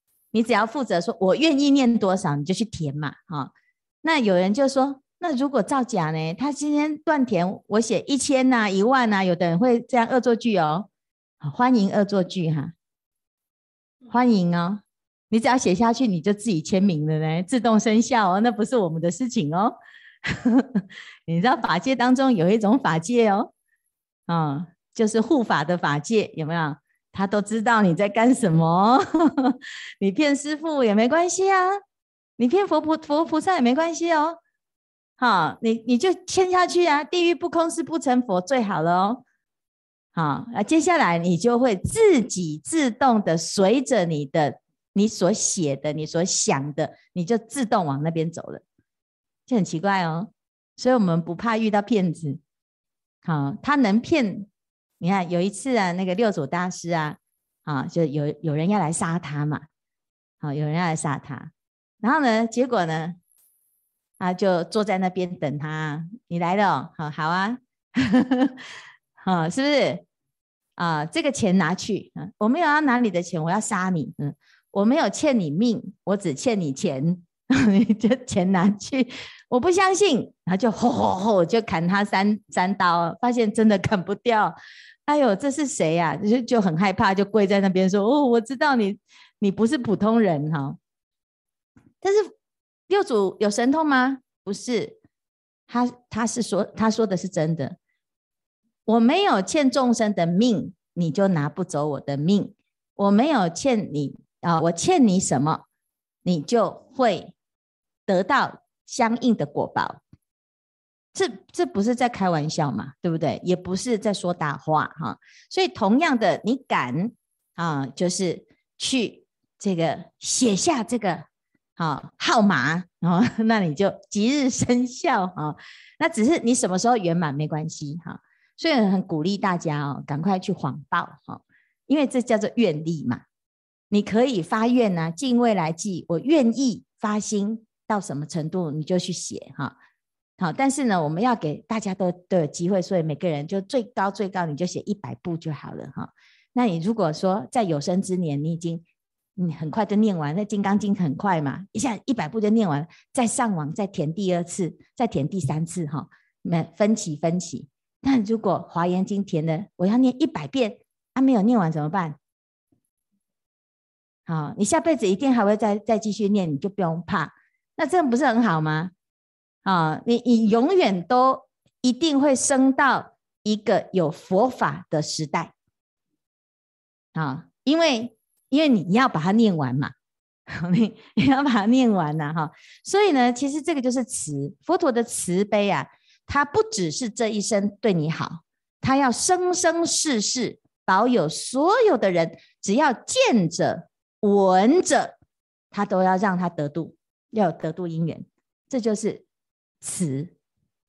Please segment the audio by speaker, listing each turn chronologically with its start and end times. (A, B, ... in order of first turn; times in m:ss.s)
0:00.3-0:03.5 A
0:04.0-0:10.9 A
0:11.4-0:12.7 A
0:14.1-0:23.5 A
0:24.3-0:31.8 A
0:32.4-0:34.4 A
0:35.2-0:39.2 A
0:40.2-0:48.6 A
0:49.5-0:52.4 A
0:53.2-0:54.5 A
0:55.0-0:59.6 A
1:00.4-1:01.5 A
1:02.0-1:03.2 A
1:04.2-1:08.6 A
1:09.2-1:10.0 A
1:10.8-1:24.6 A
1:25.1-1:30.8 A
1:32.0-1:32.3 A
1:32.9-1:35.0 A
1:35.7-1:37.8 A
1:38.9-1:45.6 A
1:46.2-1:47.3 A
1:48.1-1:50.0 A
1:51.1-2:13.2 A
2:13.9-2:19.8 A
2:20.4-2:28.8 A
2:29.4-2:42.2 A
2:44.3-2:48.9 A
2:49.6-2:55.5 A
2:57.1-2:59.9 A
3:00.5-3:15.2 A
3:15.7-3:19.2 A
3:19.8-3:20.3 A